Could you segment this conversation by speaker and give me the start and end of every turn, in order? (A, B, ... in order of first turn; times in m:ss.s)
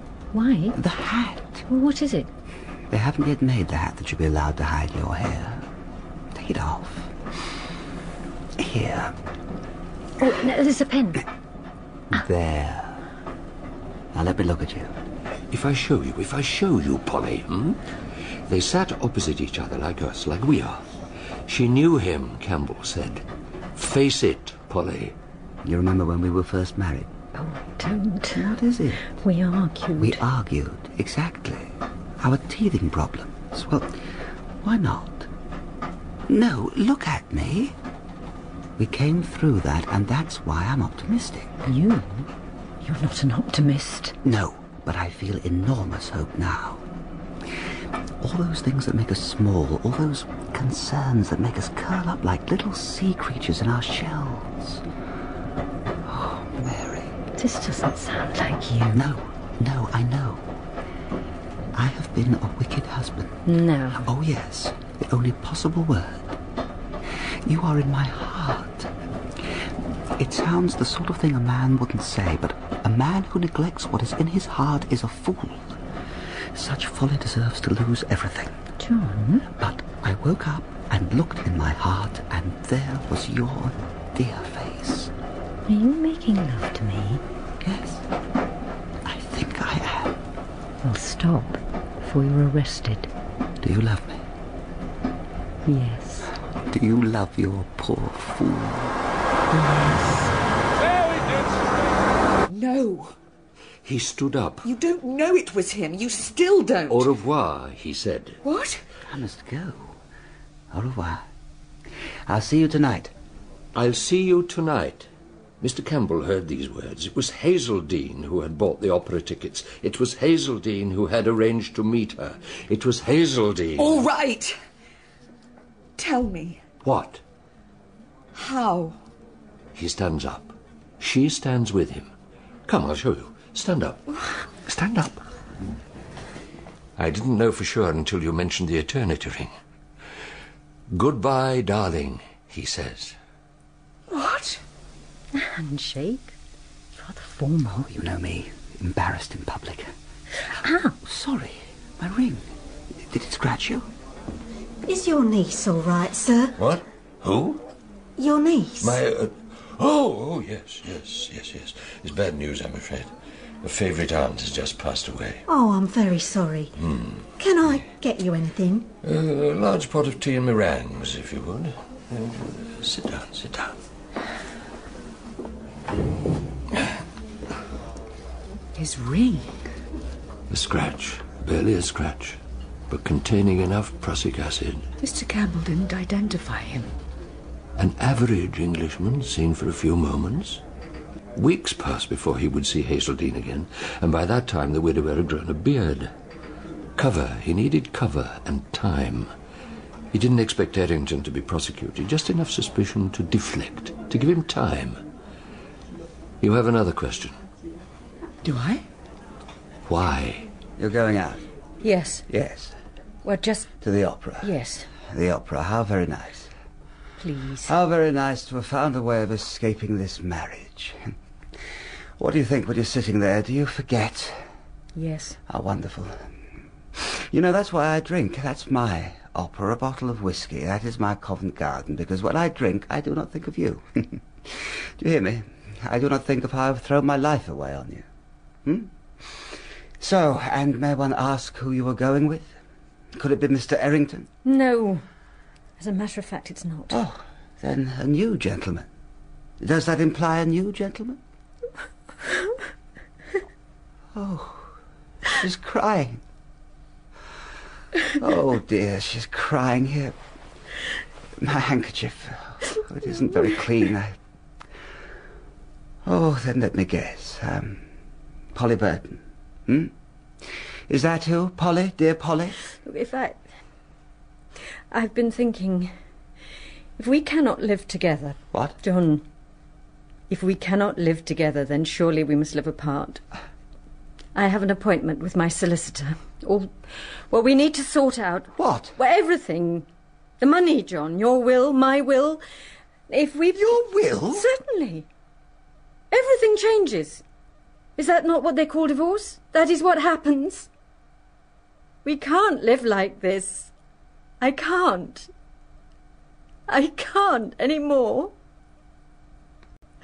0:00.3-0:00.8 A
0:00.7-0:01.6 B
0:01.7-0:02.3 A
0:02.9-0:05.6 B
0:06.3-0:07.1 B
0:08.6-0:09.1 B
0:10.2-0:11.2 A
0:12.1-0:13.0 B
0:14.1-0:14.9 B
0:15.5-0:17.8 C
0:18.5-0:20.8 C
0:21.5-0:23.2 C
0:23.7-0:25.2 C
0:25.6-0:27.1 B
0:27.3-0:28.5 A
0:28.3-0:29.0 B
0:29.2-0:30.2 A
0:30.0-0:34.1 B
0:34.6-0:35.3 B
0:36.3-0:37.7 B
0:38.8-0:41.6 B
0:41.6-0:42.3 A
0:42.8-0:44.2 A
0:44.2-0:46.8 B
0:48.2-0:54.8 B
0:56.0-0:57.2 B
0:57.4-0:59.0 A
0:58.9-1:00.5 B
1:01.7-1:06.4 B
1:03.4-1:04.1 A
1:07.4-1:08.9 B
1:10.2-1:15.8 B
1:16.5-1:18.6 B
1:18.8-1:19.4 A
1:19.5-1:25.1 B
1:25.7-1:27.2 A
1:27.6-1:28.0 B
1:29.0-1:30.2 B
1:30.8-1:33.1 A
1:33.6-1:34.2 B
1:35.6-1:36.3 A
1:36.7-1:38.9 B
1:39.5-1:40.3 D
1:42.5-1:43.1 D
1:43.8-1:44.6 C
1:44.6-1:47.1 D
1:46.9-1:48.4 C
1:48.4-1:48.8 D
1:49.1-1:49.9 B
1:50.7-1:51.2 B
1:52.3-1:53.1 B
1:53.7-1:55.1 C
1:55.6-2:04.0 C
2:03.8-2:04.6 D
2:06.0-2:06.6 D
2:06.8-2:07.2 C
2:08.3-2:09.0 D
2:09.7-2:12.1 C
2:12.7-2:14.0 C
2:14.6-2:15.2 C
2:17.0-2:19.5 C
2:20.9-2:23.2 C
2:24.1-2:24.6 D
2:25.3-2:26.3 A
2:26.9-2:27.9 A
2:27.9-2:29.9 B
2:30.6-2:30.9 A
2:31.0-2:33.9 B
2:34.8-2:36.5 E
2:36.6-2:37.6 C
2:38.2-2:39.0 E
2:38.8-2:43.1 C
2:43.6-2:45.4 C
2:45.5-2:46.7 E
2:46.8-2:47.2 C
2:47.4-2:48.9 E
2:49.0-2:53.8 C
2:58.7-2:59.6 D
3:00.5-3:02.4 C
3:02.9-3:04.9 C
3:05.0-3:06.9 D
3:07.8-3:10.6 C
3:11.3-3:16.1 C
3:17.0-3:19.3 C
3:20.1-3:25.0 C
3:26.4-3:27.3 C
3:28.4-3:28.8 D
3:29.9-3:30.5 C
3:30.8-3:31.4 B
3:31.8-3:32.2 A
3:32.3-3:32.7 B
3:33.2-3:33.7 A
3:33.8-3:34.5 B
3:34.4-3:34.9 A
3:35.0-3:36.5 B
3:37.2-3:37.7 A
3:37.6-3:41.1 B
3:42.2-3:44.4 B
3:44.9-3:45.4 A
3:45.5-3:46.3 B
3:47.0-3:58.1 B
3:58.6-4:02.6 B
4:03.1-4:04.3 B
4:04.4-4:05.0 A
4:05.8-4:07.0 A
4:06.9-4:08.9 B
4:09.6-4:11.2 B
4:14.1-4:14.7 B
4:15.2-4:16.2 B
4:18.2-4:20.2 B
4:21.4-4:24.2 B
4:26.0-4:27.8 B
4:28.5-4:29.9 B
4:30.9-4:32.6 B
4:32.8-4:33.4 A
4:34.9-4:35.9 A
4:37.0-4:39.2 A
4:40.3-4:43.2 A
4:44.3-4:46.7 A
4:47.3-4:49.8 A
4:48.6-4:48.9 B
4:50.4-4:52.4 A
4:53.1-4:55.1 A
4:53.5-4:54.4 B
4:56.1-4:57.2 A
4:58.0-5:00.7 A
5:02.0-5:03.7 A
5:04.4-5:05.3 A
5:06.7-5:08.3 A